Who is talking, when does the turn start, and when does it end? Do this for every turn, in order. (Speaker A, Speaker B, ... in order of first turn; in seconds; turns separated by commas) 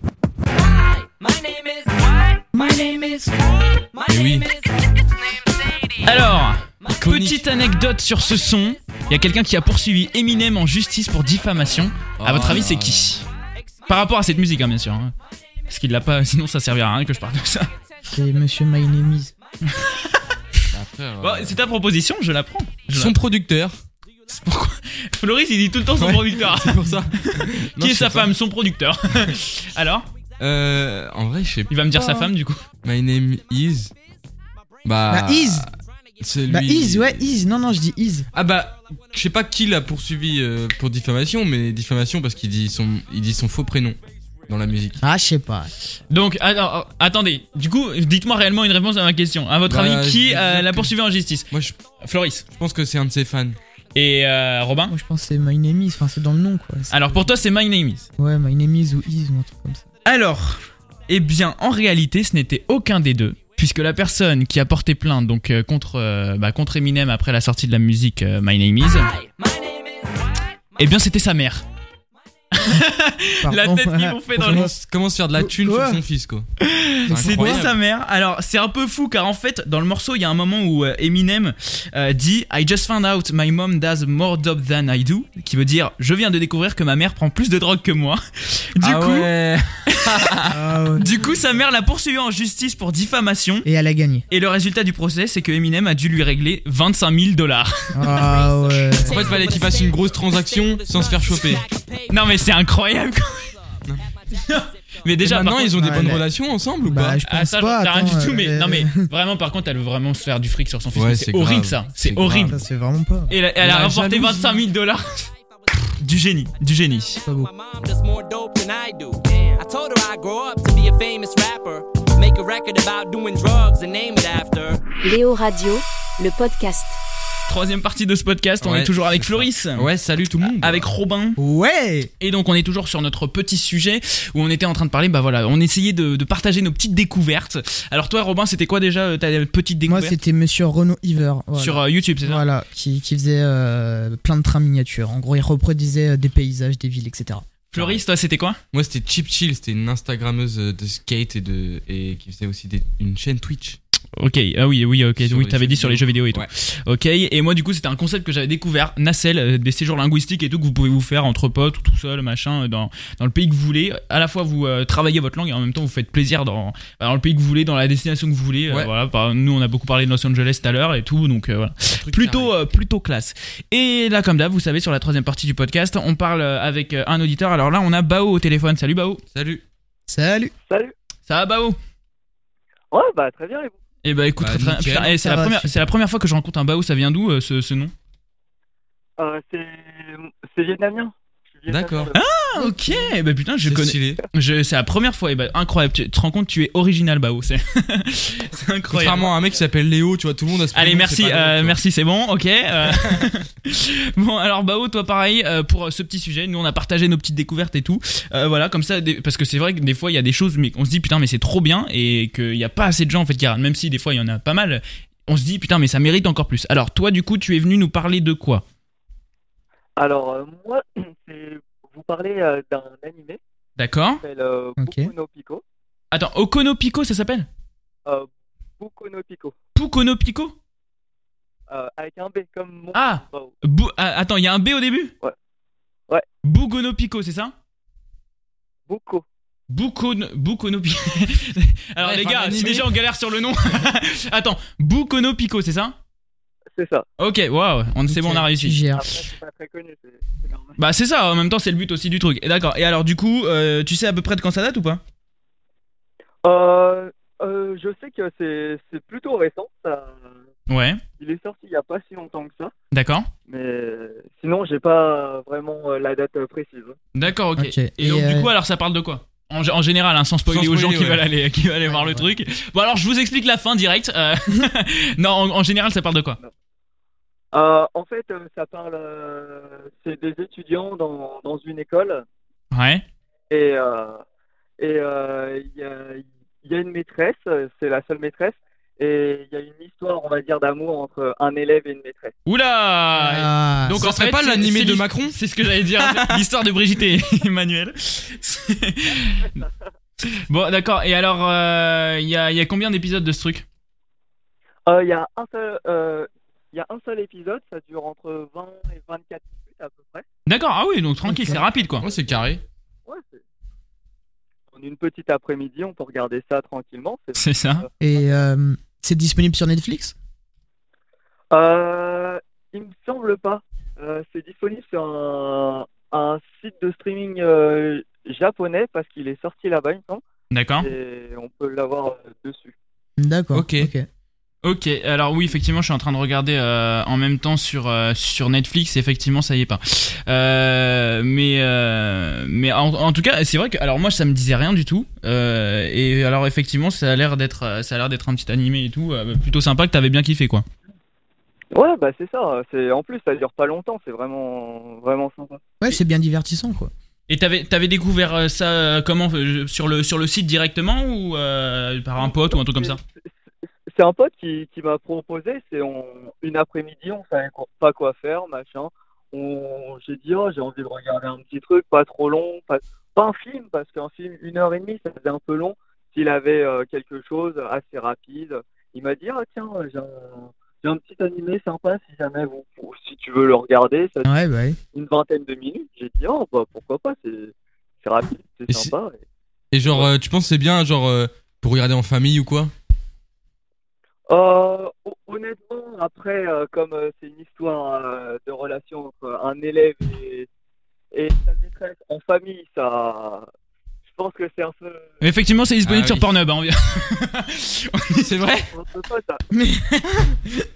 Speaker A: 0.5-20.7, Speaker B: 2.5-3.1, Speaker C: 4.1-4.5, Speaker D: 6.0-13.3, Speaker C: 6.9-7.4, Speaker C: 12.2-13.1, Speaker D: 13.9-15.1, Speaker D: 15.7-17.7, Speaker B: 18.1-19.3, Speaker D: 19.7-20.2, Speaker C: 20.7-21.6, Speaker D: 21.2-23.2, Speaker A: 21.4-21.8, Speaker C: 22.9-23.8, Speaker A: 24.0-26.5, Speaker D: 24.3-30.1, Speaker C: 26.0-28.3, Speaker A: 28.5-45.0, Speaker C: 30.4-31.8, Speaker D: 31.7-32.6, Speaker B: 31.9-32.3, Speaker C: 32.8-33.9, Speaker C: 34.9-37.4, Speaker B: 35.1-35.7, Speaker B: 36.5-38.3, Speaker C: 38.3-45.0, Speaker B: 45.0-45.7, Speaker D: 46.1-52.4, Speaker A: 47.7-48.5, Speaker C: 49.7-50.9, Speaker C: 51.5-51.8, Speaker C: 52.5-53.6, Speaker D: 53.9-55.0, Speaker B: 54.9-56.9, Speaker D: 56.9-58.1, Speaker B: 58.2-59.8, Speaker D: 60.0-69.1, Speaker A: 61.1-61.4, Speaker A: 68.8-71.5, Speaker D: 70.8-71.7, Speaker A: 72.2-72.6, Speaker D: 72.5-74.7, Speaker B: 73.4-74.7, Speaker C: 74.4-76.5, Speaker B: 75.3-76.0, Speaker D: 76.6-89.3, Speaker B: 77.1-77.7, Speaker C: 77.1-77.8, Speaker C: 88.8-90.5, Speaker D: 89.9-93.7, Speaker B: 90.5-91.2, Speaker B: 93.7-94.2, Speaker A: 94.3-94.7, Speaker D: 94.3-98.3, Speaker B: 97.9-99.3, Speaker A: 98.0-106.1, Speaker C: 99.0-101.6, Speaker D: 102.1-103.5, Speaker D: 104.4-106.0, Speaker C: 105.2-107.2, Speaker B: 105.7-106.3, Speaker B: 106.8-109.1, Speaker D: 107.2-112.6, Speaker A: 109.5-110.8, Speaker C: 110.9-112.6, Speaker B: 112.5-113.4, Speaker D: 113.3-115.3, Speaker C: 113.6-114.5, Speaker A: 114.5-124.8, Speaker D: 116.0-117.2, Speaker B: 117.2-117.5, Speaker E: 125.0-127.0, Speaker D: 127.5-129.9, Speaker C: 128.6-130.9, Speaker D: 130.5-131.4, Speaker B: 131.4-132.1, Speaker D: 132.2-140.2, Speaker B: 139.9-147.5, Speaker D: 141.6-142.4, Speaker D: 147.7-148.6, Speaker C: 147.8-148.0, Speaker C: 148.7-153.8, Speaker D: 154.2-179.2, Speaker C: 155.2-156.5, Speaker C: 171.9-172.6, Speaker C: 179.3-179.6, Speaker B: 180.1-180.5, Speaker F: 180.7-180.9, Speaker D: 181.3-181.8, Speaker F: 182.9-183.8, Speaker D: 184.0-187.9, Speaker C: 184.4-185.4, Speaker B: 185.2-185.8, Speaker F: 189.2-192.2, Speaker C: 191.7-192.1, Speaker D: 192.1-199.3, Speaker B: 192.6-193.1, Speaker C: 193.6-194.2, Speaker C: 198.9-201.8, Speaker D: 200.7-218.7, Speaker C: 202.9-203.2, Speaker F: 220.0-223.4, Speaker D: 223.8-224.2, Speaker F: 224.2-225.6, Speaker B: 224.8-225.1, Speaker D: 226.1-227.5, Speaker F: 228.8-229.6, Speaker D: 229.8-230.6, Speaker F: 231.7-233.6, Speaker D: 232.9-235.1, Speaker D: 236.4-237.6, Speaker F: 238.9-239.2, Speaker D: 239.7-246.0, Speaker C: 242.0-243.0, Speaker F: 246.7-247.1, Speaker D: 247.2-248.8, Speaker B: 248.1-249.1, Speaker F: 248.9-250.8, Speaker D: 250.8-255.0, Speaker F: 256.4-260.4, Speaker D: 260.7-261.0, Speaker F: 261.2-262.7, Speaker D: 262.9-263.3, Speaker F: 263.5-267.0, Speaker D: 267.1-276.4, Speaker B: 267.6-268.5, Speaker C: 270.5-271.2, Speaker B: 271.9-272.3, Speaker F: 277.5-282.2, Speaker D: 282.7-283.1, Speaker F: 283.5-284.2, Speaker F: 284.8-292.4, Speaker D: 292.5-299.6, Speaker B: 293.2-294.0, Speaker C: 293.9-295.4, Speaker C: 296.0-296.4, Speaker D: 300.2-303.6, Speaker F: 304.9-310.3, Speaker D: 310.5-312.1, Speaker B: 311.2-311.6, Speaker C: 312.0-312.6, Speaker F: 313.1-313.4, Speaker F: 314.7-318.3, Speaker D: 317.4-317.9, Speaker B: 318.0-320.1, Speaker F: 321.5-330.2, Speaker D: 330.5-330.9, Speaker F: 330.8-332.8, Speaker B: 333.2-334.1, Speaker C: 333.5-333.9, Speaker D: 334.6-350.7, Speaker F: 351.7-355.6, Speaker B: 355.8-356.9, Speaker D: 357.3-363.0, Speaker F: 362.2-363.3, Speaker F: 363.9-384.3, Speaker B: 384.2-384.8, Speaker F: 384.9-389.2, Speaker C: 389.7-392.7, Speaker F: 389.8-390.1, Speaker F: 394.3-400.5, Speaker F: 401.1-403.5, Speaker F: 404.1-405.2, Speaker D: 405.2-408.4, Speaker C: 405.9-406.3, Speaker C: 408.2-408.7, Speaker F: 408.7-409.4, Speaker B: 409.5-410.4